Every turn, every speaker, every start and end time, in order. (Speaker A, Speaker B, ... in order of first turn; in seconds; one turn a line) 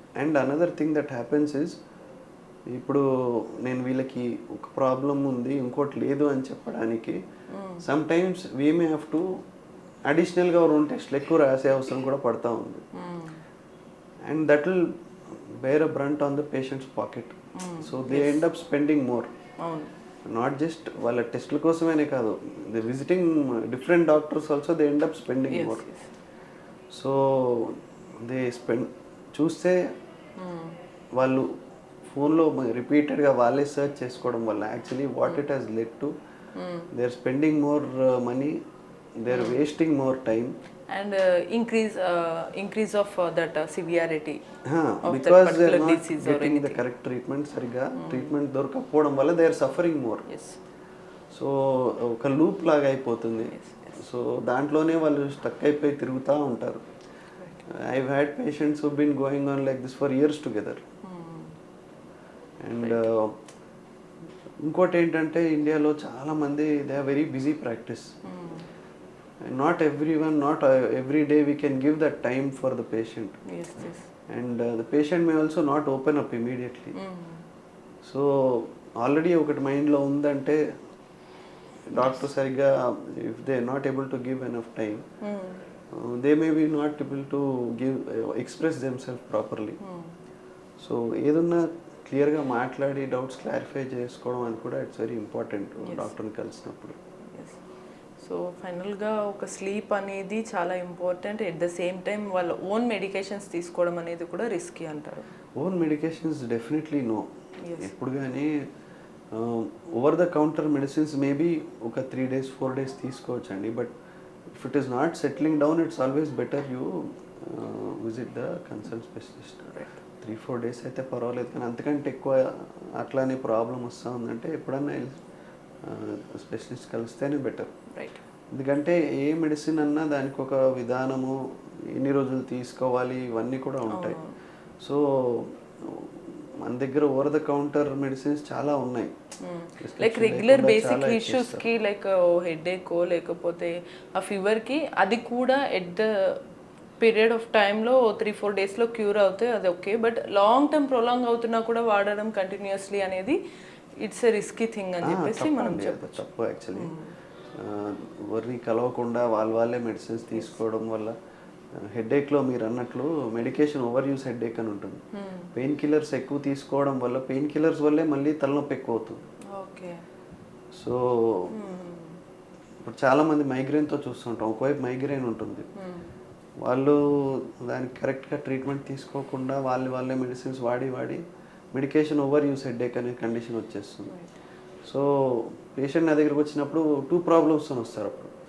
Speaker A: 0.2-1.8
Speaker A: 2.7-7.2
Speaker B: 7.5-7.8
Speaker A: 7.8-9.3
Speaker A: 10.1-12.8
Speaker B: 12.9-13.4
Speaker A: 14.3-14.8
Speaker A: 15.6-19.3
Speaker B: 17.6-18.4
Speaker B: 19.6-19.9
Speaker A: 20.3-25.8
Speaker B: 25.5-26.1
Speaker A: 26.9-29.8
Speaker B: 30.4-30.8
Speaker A: 31.2-31.5
Speaker A: 32.1-36.1
Speaker B: 36.5-36.9
Speaker A: 36.9-38.6
Speaker A: 39.2-40.5
Speaker B: 39.3-39.6
Speaker B: 40.9-44.4
Speaker A: 44.6-50.3
Speaker B: 45.0-46.8
Speaker B: 48.0-48.3
Speaker B: 50.3-50.6
Speaker A: 51.3-56.8
Speaker B: 53.5-54.0
Speaker A: 57.7-60.8
Speaker B: 61.0-61.6
Speaker A: 62.6-63.4
Speaker B: 62.8-63.1
Speaker A: 64.6-68.1
Speaker B: 68.2-68.7
Speaker A: 69.5-73.4
Speaker B: 73.5-74.1
Speaker A: 74.3-77.0
Speaker B: 77.0-77.5
Speaker A: 78.0-80.6
Speaker A: 81.9-85.0
Speaker B: 85.2-85.6
Speaker A: 85.9-89.8
Speaker B: 89.8-90.1
Speaker A: 90.8-97.0
Speaker B: 95.8-96.1
Speaker B: 97.3-97.6
Speaker B: 98.2-105.3
Speaker A: 105.6-107.3
Speaker B: 107.6-107.9
Speaker A: 107.8-108.5
Speaker A: 109.3-113.9
Speaker A: 114.5-125.2
Speaker A: 125.8-127.7
Speaker B: 127.9-128.2
Speaker A: 128.5-131.4
Speaker A: 131.9-134.2
Speaker B: 133.9-134.4
Speaker A: 134.8-139.1
Speaker B: 139.4-146.4
Speaker A: 139.8-141.7
Speaker B: 147.0-153.4
Speaker B: 154.0-156.2
Speaker A: 155.0-156.9
Speaker B: 156.8-157.1
Speaker A: 157.5-161.1
Speaker A: 161.8-165.0
Speaker B: 165.1-165.5
Speaker A: 165.5-169.2
Speaker B: 169.5-170.0
Speaker A: 170.7-171.5
Speaker B: 171.5-172.2
Speaker A: 172.8-175.7
Speaker B: 175.8-176.1
Speaker A: 176.6-181.2
Speaker A: 181.7-184.1
Speaker A: 184.9-188.3